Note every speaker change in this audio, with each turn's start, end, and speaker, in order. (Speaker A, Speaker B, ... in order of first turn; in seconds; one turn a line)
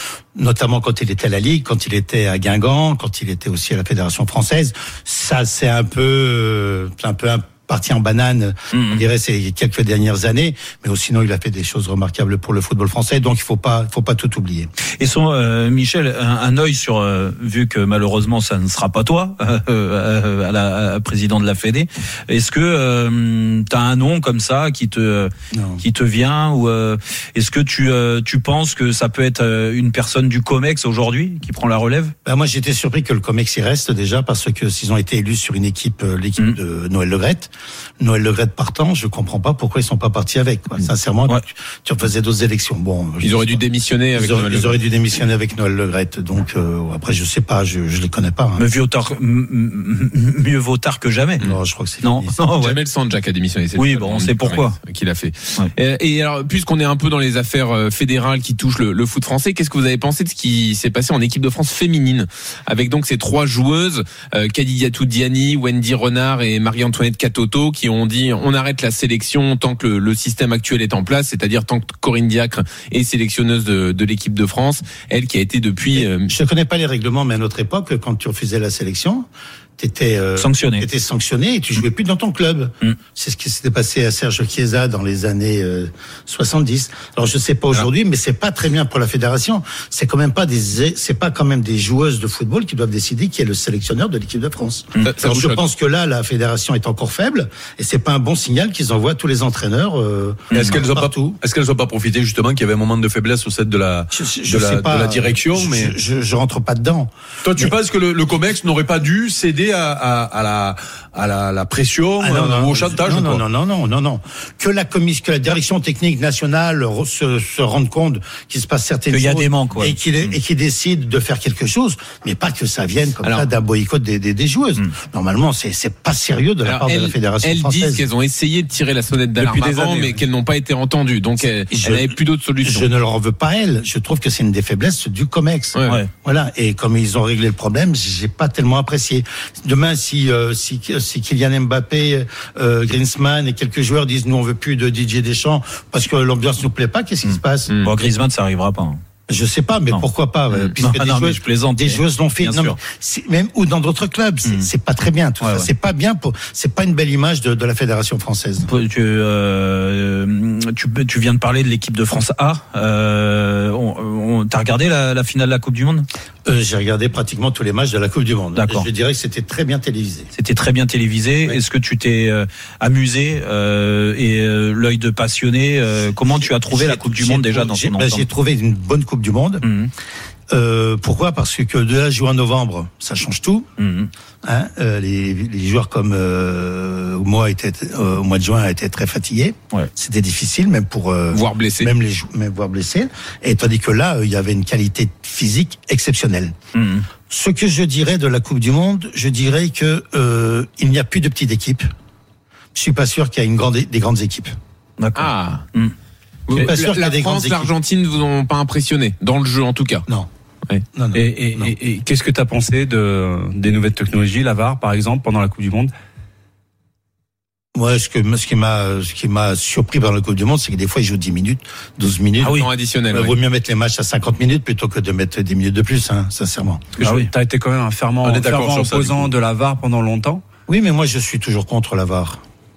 Speaker A: 0.3-14.7
Speaker B: 8.7-9.0
Speaker B: 15.0-32.1
Speaker A: 25.5-25.8
Speaker A: 32.2-43.6
Speaker C: 43.2-44.8
Speaker A: 44.1-48.6
Speaker B: 48.6-51.4
Speaker A: 51.4-52.3
Speaker B: 52.0-52.8
Speaker C: 52.5-76.3
Speaker B: 53.8-54.8
Speaker A: 75.9-79.3
Speaker A: 79.8-101.4
Speaker B: 80.4-80.8
Speaker C: 95.0-95.6
Speaker D: 100.5-105.9
Speaker A: 104.1-107.7
Speaker D: 107.4-113.4
Speaker A: 112.2-128.1
Speaker B: 119.1-120.3
Speaker C: 126.6-132.9
Speaker E: 129.5-130.1
Speaker A: 131.7-147.7
Speaker C: 135.8-136.0
Speaker B: 147.2-149.0
Speaker A: 149.3-158.7
Speaker B: 150.6-152.8
Speaker B: 155.4-155.7
Speaker B: 158.7-166.1
Speaker A: 166.4-170.3
Speaker B: 168.6-168.9
Speaker B: 170.3-178.2
Speaker A: 176.3-179.6
Speaker B: 179.6-179.9
Speaker A: 180.5-183.7
Speaker B: 183.8-184.1
Speaker A: 184.4-196.5
Speaker C: 191.3-191.9
Speaker B: 196.7-197.1
Speaker A: 197.3-201.9
Speaker A: 202.8-204.6
Speaker B: 205.0-205.9
Speaker C: 205.2-205.6
Speaker C: 206.5-210.1
Speaker A: 206.5-207.7
Speaker A: 210.9-211.7
Speaker E: 211.1-215.9
Speaker A: 217.8-226.9
Speaker C: 222.4-223.3
Speaker E: 227.0-230.4
Speaker B: 227.0-227.3
Speaker D: 228.2-229.3
Speaker A: 230.7-232.4